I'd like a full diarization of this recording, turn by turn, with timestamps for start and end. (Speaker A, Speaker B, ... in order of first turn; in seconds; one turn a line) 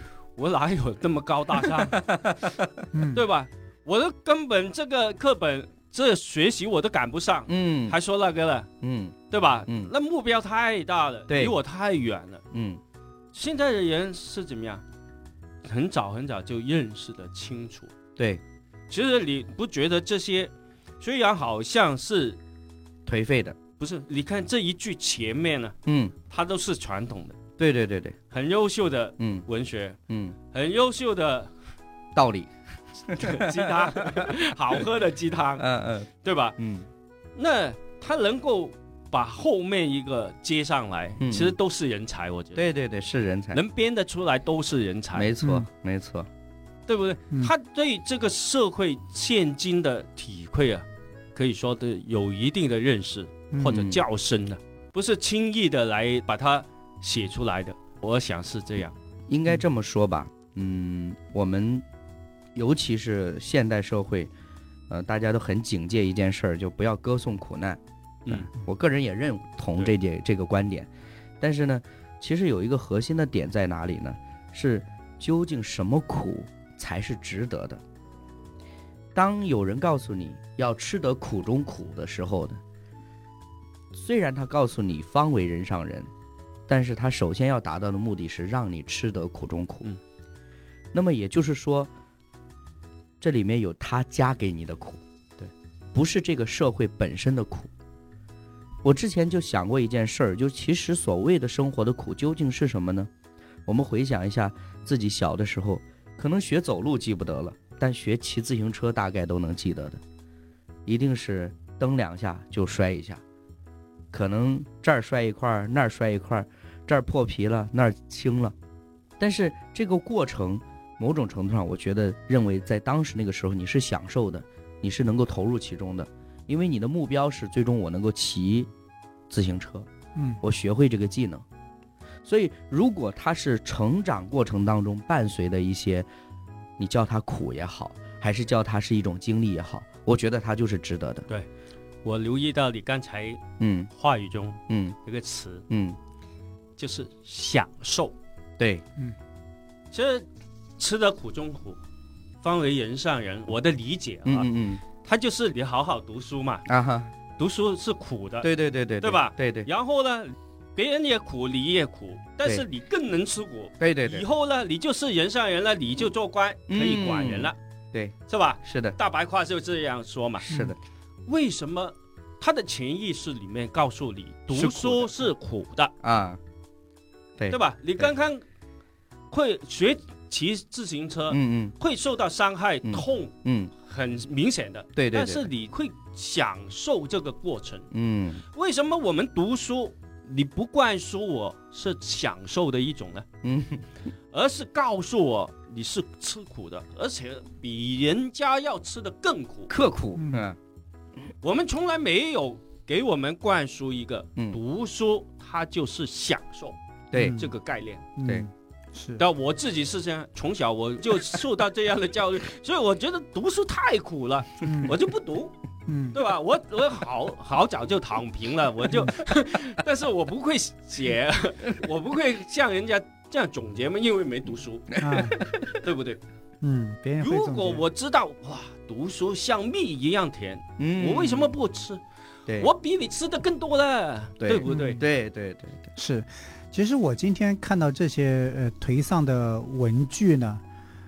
Speaker A: 0.4-2.0
Speaker B: 1.6-2.7
Speaker C: 2.9-3.2
Speaker A: 3.1-8.7
Speaker B: 7.5-8.0
Speaker B: 8.8-9.9
Speaker A: 9.3-12.4
Speaker B: 11.3-11.6
Speaker B: 12.5-12.8
Speaker A: 13.3-14.8
Speaker A: 15.7-17.9
Speaker B: 18.2-18.4
Speaker A: 18.9-22.4
Speaker B: 23.1-23.6
Speaker A: 23.8-25.8
Speaker B: 25.9-26.1
Speaker A: 26.3-27.4
Speaker B: 27.6-28.2
Speaker A: 28.3-30.0
Speaker B: 29.2-29.5
Speaker B: 30.1-30.4
Speaker A: 30.5-31.5
Speaker B: 32.1-32.5
Speaker B: 33.1-34.8
Speaker A: 33.2-35.7
Speaker B: 35.6-36.9
Speaker A: 36.2-36.6
Speaker A: 37.4-42.6
Speaker B: 41.2-41.6
Speaker B: 42.5-43.6
Speaker A: 43.5-45.3
Speaker B: 45.1-46.3
Speaker A: 46.9-59.0
Speaker C: 53.5-53.8
Speaker B: 53.7-54.0
Speaker B: 59.3-61.8
Speaker B: 62.5-64.3
Speaker B: 64.9-77.8
Speaker B: 79.2-82.6
Speaker B: 83.9-86.1
Speaker B: 86.7-89.9
Speaker B: 90.9-91.9
Speaker B: 93.2-95.0
Speaker B: 95.9-97.7
Speaker B: 98.8-103.1
Speaker B: 103.7-110.0
Speaker B: 110.9-113.2
Speaker B: 114.1-118.5
Speaker B: 119.2-128.7
Speaker B: 129.3-129.9
Speaker B: 130.4-131.4
Speaker B: 132.2-136.1
Speaker B: 136.8-141.3
Speaker A: 142.0-143.4
Speaker B: 143.6-143.9
Speaker A: 144.0-145.7
Speaker B: 144.7-145.0
Speaker B: 145.7-146.0
Speaker A: 146.8-148.2
Speaker B: 148.6-148.8
Speaker A: 149.9-150.3
Speaker A: 150.8-151.8
Speaker A: 152.4-154.5
Speaker B: 154.2-154.8
Speaker A: 155.0-156.7
Speaker B: 156.7-157.1
Speaker A: 157.4-167.6
Speaker B: 158.4-159.7
Speaker B: 163.8-164.3
Speaker B: 166.7-169.0
Speaker A: 168.3-170.6
Speaker B: 170.5-170.8
Speaker A: 171.3-175.9
Speaker B: 174.5-175.3
Speaker B: 176.0-176.4
Speaker B: 177.4-178.1
Speaker A: 177.5-178.4
Speaker A: 179.3-187.9
Speaker B: 181.3-181.8
Speaker B: 182.8-183.7
Speaker B: 185.0-185.5
Speaker B: 187.9-188.4
Speaker A: 188.5-193.2
Speaker B: 193.4-193.8
Speaker A: 194.3-199.7
Speaker B: 199.7-200.6
Speaker C: 200.2-200.4
Speaker A: 201.4-206.8
Speaker B: 207.1-207.4
Speaker C: 207.2-207.5
Speaker A: 207.4-208.0
Speaker C: 208.2-209.2
Speaker A: 209.2-215.5
Speaker C: 214.6-215.0
Speaker C: 215.9-216.2
Speaker A: 216.1-226.2
Speaker C: 225.0-225.4
Speaker B: 225.1-225.5
Speaker C: 226.6-227.8
Speaker A: 227.2-232.0
Speaker B: 230.8-231.6
Speaker B: 232.5-232.7
Speaker A: 232.6-235.0
Speaker B: 234.4-235.9
Speaker C: 234.7-235.0
Speaker C: 236.0-240.6